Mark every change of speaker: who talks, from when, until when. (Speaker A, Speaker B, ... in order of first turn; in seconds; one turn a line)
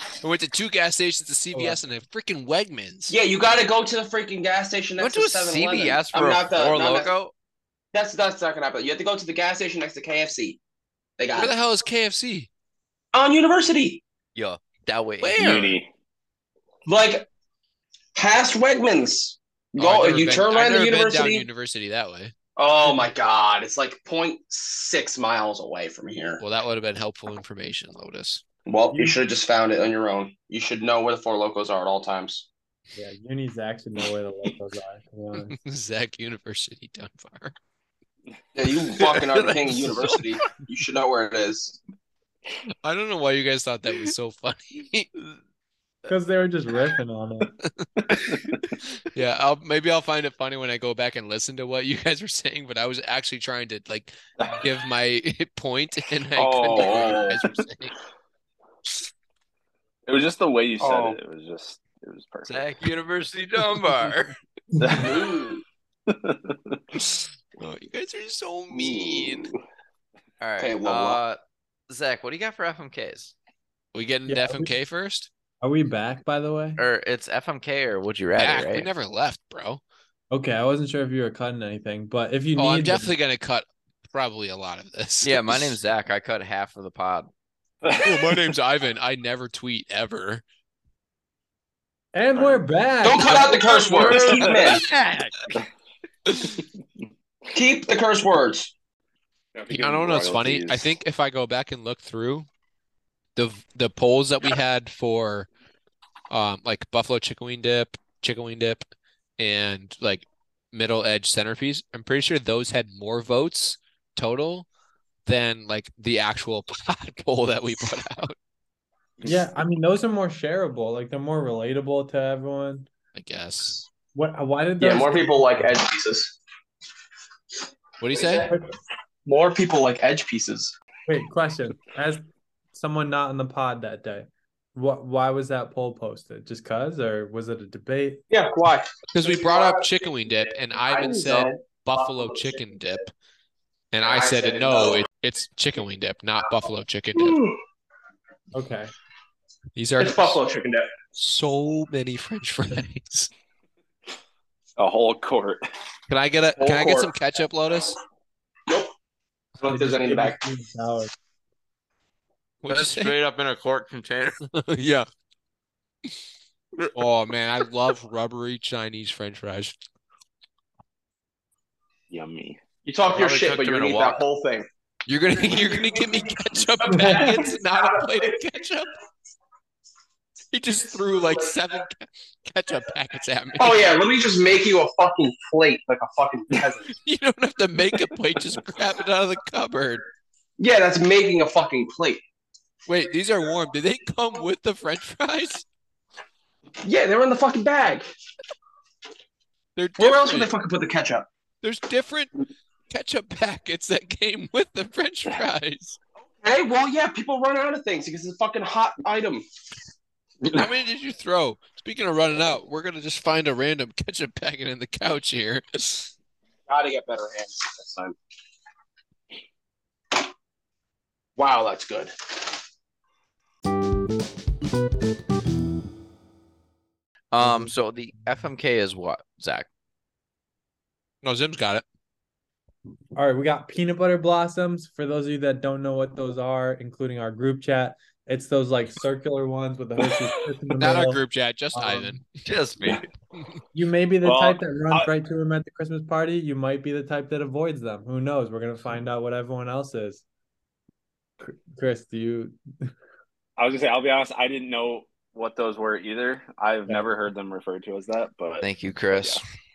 Speaker A: 0.2-3.1
Speaker B: 1.5-1.8
Speaker C: 3.1-7.1
Speaker D: 5.0-7.3
Speaker C: 7.9-10.6
Speaker C: 11.2-11.5
Speaker A: 11.3-12.5
Speaker C: 13.1-14.0
Speaker D: 14.3-15.8
Speaker A: 15.2-15.7
Speaker E: 15.4-15.9
Speaker C: 16.9-17.3
Speaker C: 18.1-21.4
Speaker A: 19.8-22.3
Speaker C: 22.6-26.4
Speaker A: 26.4-28.4
Speaker C: 28.7-32.5
Speaker B: 28.9-29.2
Speaker B: 33.0-35.5
Speaker A: 35.5-37.5
Speaker C: 38.5-41.8
Speaker A: 38.9-40.5
Speaker A: 42.8-45.1
Speaker B: 46.1-47.5
Speaker A: 47.6-48.3
Speaker E: 48.1-48.6
Speaker A: 49.1-57.9
Speaker C: 56.4-57.4
Speaker E: 60.1-62.7
Speaker C: 60.8-61.2
Speaker D: 62.4-64.3
Speaker E: 64.8-65.3
Speaker C: 64.9-65.6
Speaker E: 66.1-66.8
Speaker A: 67.0-69.5
Speaker C: 68.7-69.5
Speaker D: 70.4-73.3
Speaker C: 70.6-71.2
Speaker A: 73.9-75.3
Speaker B: 74.3-74.7
Speaker B: 75.6-76.8
Speaker D: 76.8-78.9
Speaker A: 78.4-79.8
Speaker B: 80.3-83.1
Speaker A: 82.5-85.7
Speaker D: 85.2-87.3
Speaker E: 87.8-88.3
Speaker A: 88.0-90.4
Speaker B: 92.1-93.8
Speaker C: 93.0-94.8
Speaker D: 94.0-95.3
Speaker A: 94.0-95.1
Speaker E: 94.1-94.7
Speaker A: 96.3-96.5
Speaker C: 97.5-98.7
Speaker E: 99.5-100.9
Speaker A: 99.7-102.5
Speaker A: 103.3-105.5
Speaker A: 106.3-108.9
Speaker A: 109.4-114.7
Speaker A: 115.2-118.3
Speaker B: 119.2-122.9
Speaker A: 123.1-123.8
Speaker B: 124.1-125.7
Speaker C: 124.8-126.4
Speaker A: 128.0-128.5
Speaker C: 128.1-128.6
Speaker C: 129.2-130.7
Speaker B: 131.1-132.2
Speaker B: 132.7-138.2
Speaker C: 138.3-142.7
Speaker A: 139.1-143.1
Speaker A: 143.9-147.4
Speaker C: 144.0-145.1
Speaker C: 147.1-147.6
Speaker B: 148.5-148.9
Speaker A: 149.8-150.4
Speaker C: 150.0-151.0
Speaker A: 151.2-153.3
Speaker E: 154.8-155.6
Speaker A: 156.1-158.0
Speaker C: 156.6-157.1
Speaker C: 158.7-158.9
Speaker C: 159.6-160.4
Speaker B: 159.7-161.1
Speaker A: 162.6-163.1
Speaker D: 162.7-164.4
Speaker A: 164.4-165.1
Speaker A: 166.9-169.8
Speaker E: 172.1-172.6
Speaker C: 172.8-174.7
Speaker D: 173.1-174.2
Speaker A: 175.1-178.9
Speaker C: 175.3-178.4
Speaker B: 176.9-177.2
Speaker A: 180.5-184.0
Speaker C: 181.1-181.4
Speaker C: 183.6-186.9
Speaker A: 186.9-190.0
Speaker C: 190.6-192.2
Speaker A: 192.9-195.6
Speaker C: 196.8-198.1
Speaker A: 199.8-200.5
Speaker C: 200.0-201.3
Speaker A: 201.6-202.3
Speaker A: 202.9-206.0
Speaker C: 206.4-209.4
Speaker A: 210.4-216.1
Speaker C: 216.7-218.2
Speaker C: 221.4-222.3
Speaker D: 227.3-229.7
Speaker B: 227.4-227.7
Speaker A: 231.2-231.8
Speaker B: 233.2-241.2
Speaker A: 240.8-242.3
Speaker B: 241.7-242.2
Speaker D: 242.4-243.0
Speaker B: 243.7-250.2
Speaker E: 244.2-245.1
Speaker B: 251.4-252.9
Speaker E: 253.6-259.4
Speaker D: 258.6-259.4